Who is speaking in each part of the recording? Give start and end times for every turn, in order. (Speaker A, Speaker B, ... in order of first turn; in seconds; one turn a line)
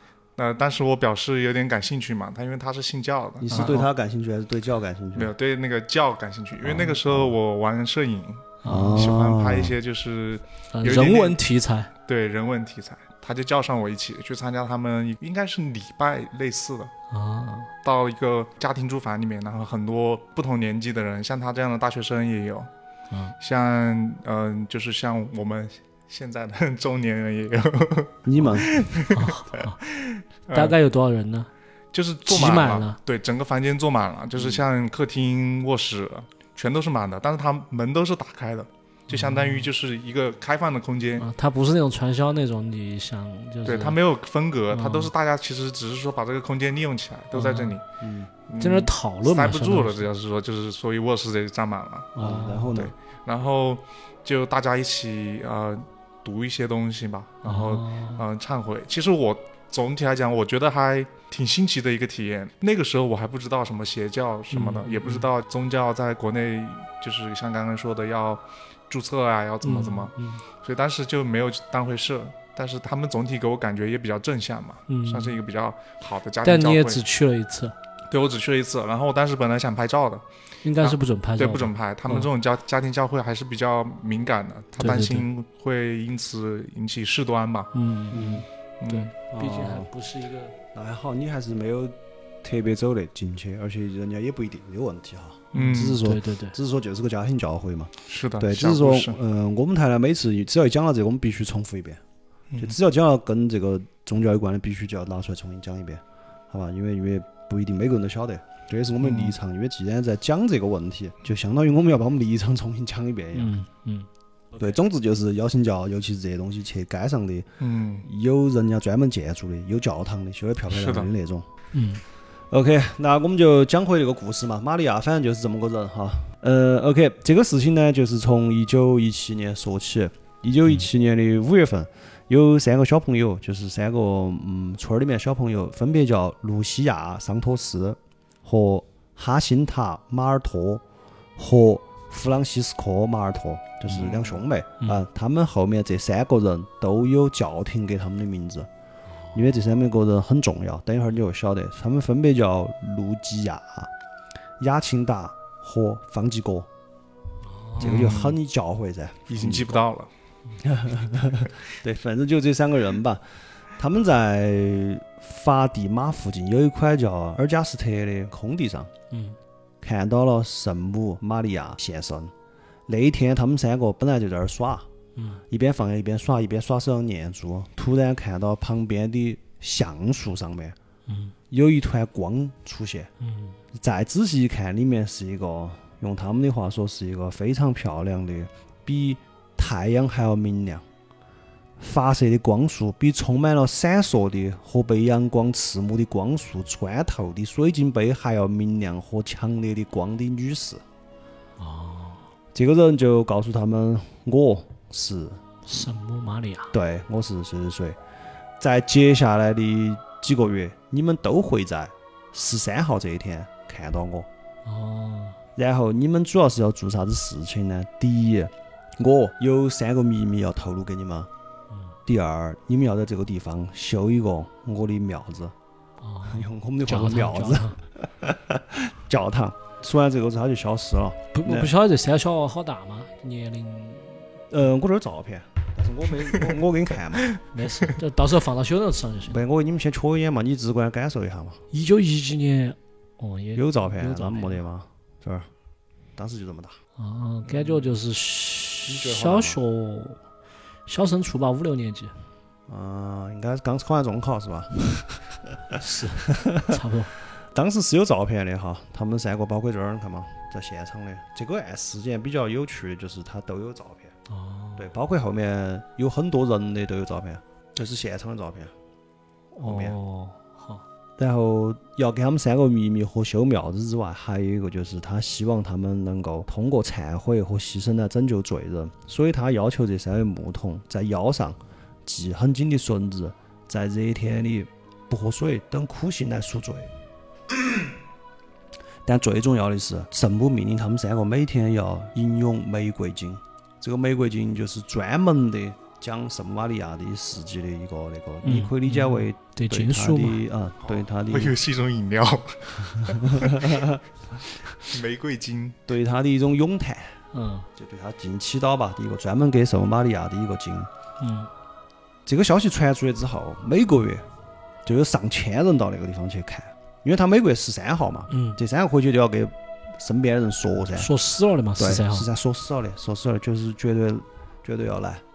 Speaker A: 0.4-3.8
Speaker B: 3.4-5.3
Speaker C: 3.5-3.9
Speaker A: 5.1-11.4
Speaker B: 6.6-7.3
Speaker C: 8.6-9.1
Speaker B: 8.7-9.8
Speaker C: 10.7-11.9
Speaker A: 12.0-16.9
Speaker C: 17.1-17.7
Speaker A: 17.8-22.7
Speaker A: 23.4-30.8
Speaker B: 28.2-28.7
Speaker C: 29.1-29.8
Speaker C: 30.5-31.5
Speaker A: 31.9-41.3
Speaker C: 32.2-33.0
Speaker B: 34.4-34.6
Speaker C: 39.1-39.7
Speaker C: 41.2-44.0
Speaker A: 43.6-47.8
Speaker C: 44.7-45.1
Speaker C: 47.3-47.8
Speaker B: 48.0-48.3
Speaker A: 48.5-52.1
Speaker C: 48.6-50.1
Speaker B: 52.1-52.9
Speaker C: 52.2-52.8
Speaker A: 52.7-77.0
Speaker C: 57.4-58.2
Speaker C: 64.5-65.2
Speaker C: 69.6-70.4
Speaker C: 74.9-75.4
Speaker C: 76.4-77.7
Speaker A: 78.1-80.2
Speaker C: 80.6-82.3
Speaker A: 80.8-87.7
Speaker C: 84.8-85.2
Speaker C: 87.7-90.5
Speaker B: 88.1-88.5
Speaker A: 88.8-89.1
Speaker B: 89.3-89.9
Speaker B: 90.7-102.0
Speaker A: 95.5-96.0
Speaker C: 95.6-96.6
Speaker A: 98.1-99.2
Speaker B: 102.6-113.5
Speaker A: 109.0-109.3
Speaker C: 113.3-114.1
Speaker B: 114.5-117.5
Speaker A: 117.6-118.1
Speaker B: 118.0-121.5
Speaker A: 120.7-121.1
Speaker C: 121.7-122.0
Speaker B: 122.5-140.8
Speaker B: 141.4-148.7
Speaker C: 143.9-144.3
Speaker C: 149.1-149.4
Speaker B: 149.3-153.9
Speaker B: 154.6-156.7
Speaker C: 157.4-158.1
Speaker B: 157.8-159.8
Speaker A: 157.8-158.4
Speaker A: 159.3-160.1
Speaker B: 160.6-163.2
Speaker B: 163.8-168.9
Speaker C: 169.1-169.4
Speaker B: 169.8-172.3
Speaker B: 172.9-174.9
Speaker C: 175.2-175.4
Speaker B: 175.5-180.8
Speaker C: 181.1-181.3
Speaker B: 181.5-183.1
Speaker C: 183.2-183.6
Speaker B: 183.7-190.8
Speaker B: 191.8-200.8
Speaker C: 201.6-202.3
Speaker B: 202.5-205.4
Speaker C: 205.7-206.7
Speaker B: 206.7-208.0
Speaker B: 208.6-214.3
Speaker C: 214.6-215.4
Speaker B: 215.6-221.3
Speaker C: 221.7-221.9
Speaker B: 222.1-225.5
Speaker C: 226.0-227.8
Speaker B: 226.2-231.7
Speaker C: 231.3-234.2
Speaker B: 234.5-237.3
Speaker C: 237.5-239.4
Speaker B: 239.2-241.6
Speaker C: 241.7-244.6
Speaker B: 243.5-245.5
Speaker B: 246.2-246.8
Speaker C: 247.0-250.2
Speaker B: 247.4-247.9
Speaker B: 248.8-249.6
Speaker C: 250.9-252.1
Speaker B: 252.7-256.8
Speaker C: 255.8-257.1
Speaker B: 257.4-264.1
Speaker C: 264.3-264.9
Speaker B: 264.8-268.7
Speaker C: 269.5-270.8
Speaker B: 269.6-269.9
Speaker B: 271.2-286.9
Speaker B: 287.5-287.9
Speaker B: 289.0-301.6
Speaker C: 298.4-300.4
Speaker A: 300.8-303.9
Speaker B: 303.0-304.0
Speaker A: 304.8-305.8
Speaker B: 305.9-307.2
Speaker C: 307.3-307.7
Speaker B: 307.7-310.9
Speaker C: 311.2-311.5
Speaker B: 312.2-314.2
Speaker B: 314.8-321.1
Speaker C: 318.3-318.6
Speaker C: 320.9-322.3
Speaker B: 321.8-325.2